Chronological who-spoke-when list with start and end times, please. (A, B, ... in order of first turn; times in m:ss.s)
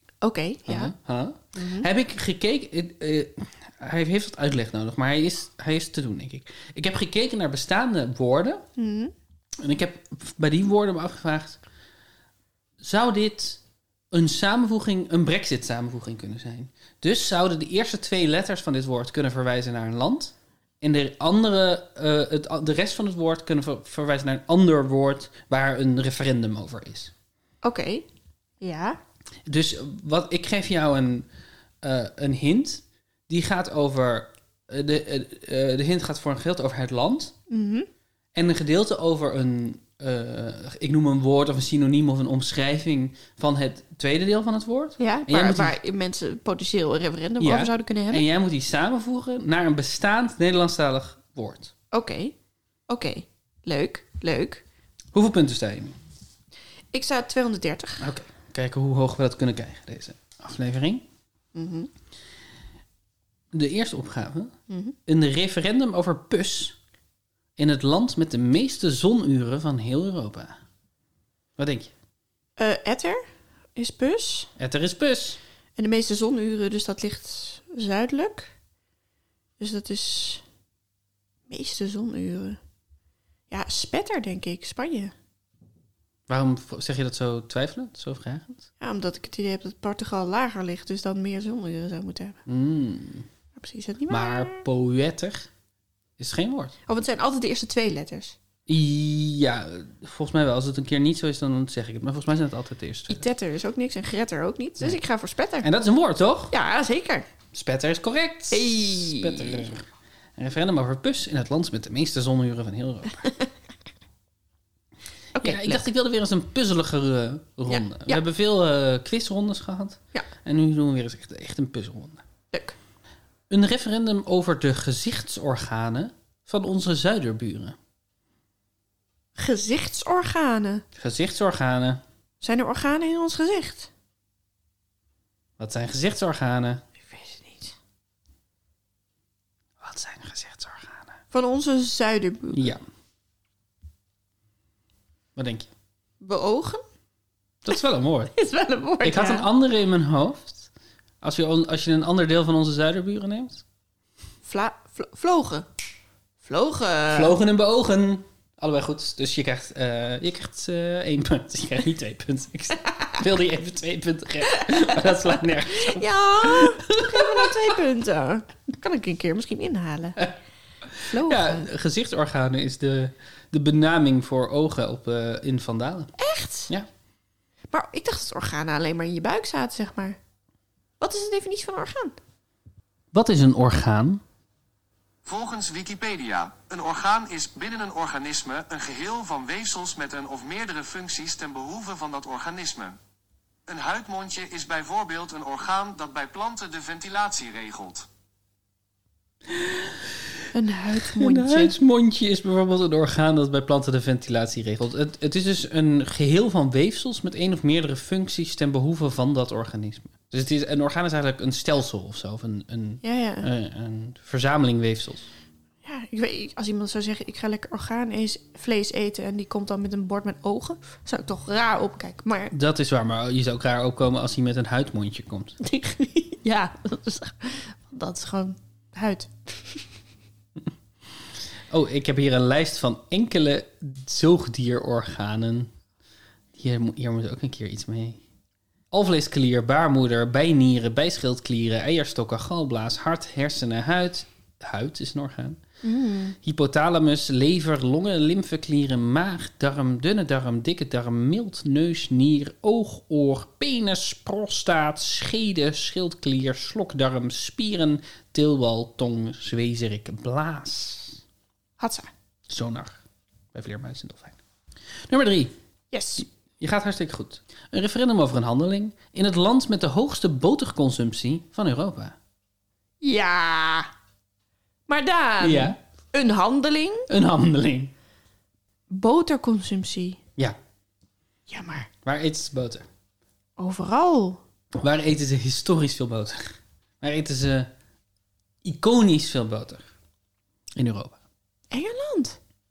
0:00.2-0:00.9 A
0:00.7-0:08.6 B
0:01.6-0:01.9 A
0:08.8-0:09.1 A
0:09.6-0:11.6 B
0:12.8-0:27.1 B
0:27.6-0:28.1 A
0:28.6-0:29.0 A
0:29.5-0:31.3 B
0:31.8-0:37.4 B
0:37.5-0:37.9 A
0:38.4-0:45.8 B
0:45.0-0:48.2 A
0:47.4-0:51.7 B
0:51.9-0:52.4 A
0:52.9-0:54.6 A
0:55.1-0:56.0 B
0:56.9-0:58.1 A
0:58.0-1:01.1 B
1:01.6-1:01.9 A
1:03.5-1:04.6 B
1:04.7-1:05.0 A
1:05.1-1:06.8 B
1:07.6-1:10.6 B
1:11.6-1:11.9 B
1:12.6-1:13.2 A
1:13.8-1:14.5 A
1:14.6-1:15.4 B
1:15.8-1:18.5 A
1:19.6-1:20.4 A
1:21.5-1:22.6 A
1:23.5-1:25.1 A
1:26.3-1:28.7 B
1:28.8-1:32.4 A
1:32.5-1:33.3 B
1:33.6-1:34.6 A
1:34.1-1:35.5 B
1:36.2-1:36.7 B
1:36.9-1:38.4 A
1:38.7-1:43.3 B
1:43.1-1:45.7 A
1:45.6-1:46.5 B
1:46.5-1:47.3 A
1:47.5-1:53.3 B
1:48.5-1:49.7 A
1:55.4-1:55.8 A
1:55.4-2:02.2 B
1:57.7-1:58.2 A
2:02.5-2:02.8 A
2:03.5-2:07.8 B
2:09.4-2:10.8 A
2:11.0-2:12.0 B
2:12.4-2:13.9 A
2:15.6-2:16.8 B
2:17.0-2:17.8 A
2:19.8-2:21.2 B
2:21.3-2:22.8 A
2:22.5-2:22.8 B
2:25.4-2:25.7 B
2:26.2-2:26.8 A
2:27.6-2:28.3 B
2:28.4-2:29.5 A
2:29.0-2:30.7 B
2:31.2-2:33.6 B
2:34.4-2:35.7 A
2:36.4-2:37.4 A
2:37.1-2:47.6 B
2:44.5-2:44.9 A
2:45.7-2:50.3 A
2:50.9-2:56.2 B
2:51.1-2:51.7 A
2:56.2-2:56.7 A
2:57.7-3:00.2 A
3:01.0-3:02.2 A
3:03.1-3:04.2 B
3:05.2-3:13.0 C
3:13.7-3:18.1 C
3:19.5-3:20.1 B
3:20.5-3:21.8 A
3:21.0-3:35.3 B
3:33.0-3:33.5 A
3:35.8-3:42.5 A
3:42.5-3:45.6 B
3:45.6-3:49.8 A
3:51.2-3:55.7 B
3:56.6-3:58.2 B
3:58.9-4:05.6 B
4:05.8-4:06.4 A
4:06.4-4:21.2 B
4:21.8-4:22.1 A
4:22.5-4:23.0 B
4:23.5-4:24.4 B
4:25.1-4:25.5 B
4:25.9-4:26.2 A
4:26.2-4:32.2 B
4:33.0-4:33.9 A
4:34.9-4:37.1 A
4:35.4-4:35.8 B
4:37.1-4:37.9 B
4:38.9-4:40.2 A
4:41.5-4:41.9 A
4:42.0-4:42.9 B
4:43.6-4:44.4 A
4:44.8-4:47.7 B
4:48.6-4:49.9 B
4:50.8-4:51.2 B
4:51.7-4:52.4 A